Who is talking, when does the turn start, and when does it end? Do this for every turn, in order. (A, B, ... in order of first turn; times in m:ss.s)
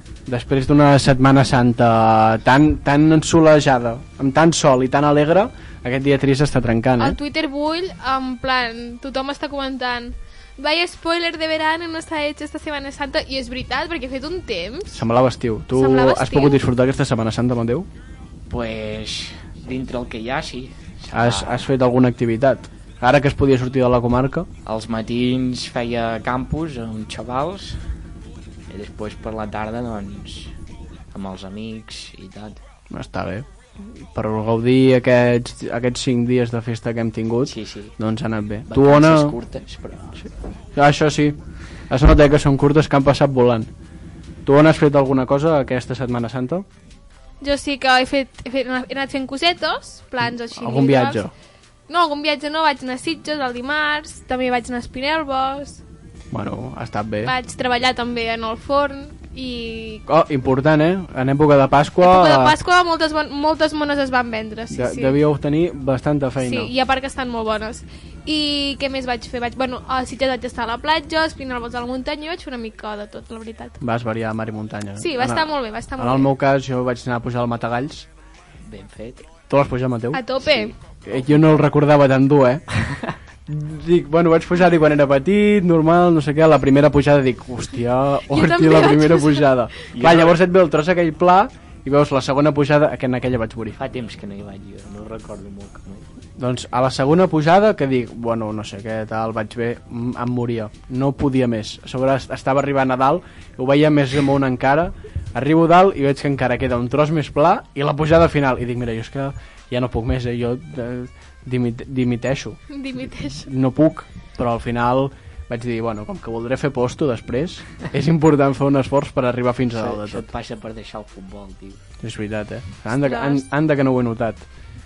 0:00.2-0:07.2 A
0:07.0-0:15.0 B
0:14.9-0:17.9 A
0:15.7-0:16.6 B
0:18.5-0:21.7 C
0:21.1-0:24.5 A
0:24.6-0:27.8 C
0:28.7-0:30.5 C
0:31.1-0:32.6 C
0:32.9-0:39.4 A
0:37.4-0:38.0 C
0:38.7-0:40.3 C
0:40.7-0:43.7 A
0:44.4-0:46.7 A
0:47.4-0:51.2 B
0:50.2-0:51.3 A
0:51.9-0:55.8 B
0:56.3-0:57.3 A
0:57.2-1:00.0 B
1:00.1-1:02.5 A
1:02.0-1:05.2 B
1:04.7-1:06.7 A
1:06.4-1:13.8 B
1:13.8-1:18.1 A
1:15.0-1:16.3 B
1:18.6-1:19.3 C
1:19.5-1:20.4 A
1:20.1-1:20.7 B
1:20.5-1:21.2 C
1:21.0-1:22.6 A
1:23.5-1:33.8 A
1:28.3-1:29.6 B
1:29.9-1:30.4 C
1:33.8-1:36.0 C
1:36.4-1:52.6 A
1:52.7-1:53.5 B
1:53.4-2:00.3 A
1:59.7-2:01.8 C
2:02.0-2:04.4 A
2:02.9-2:03.4 B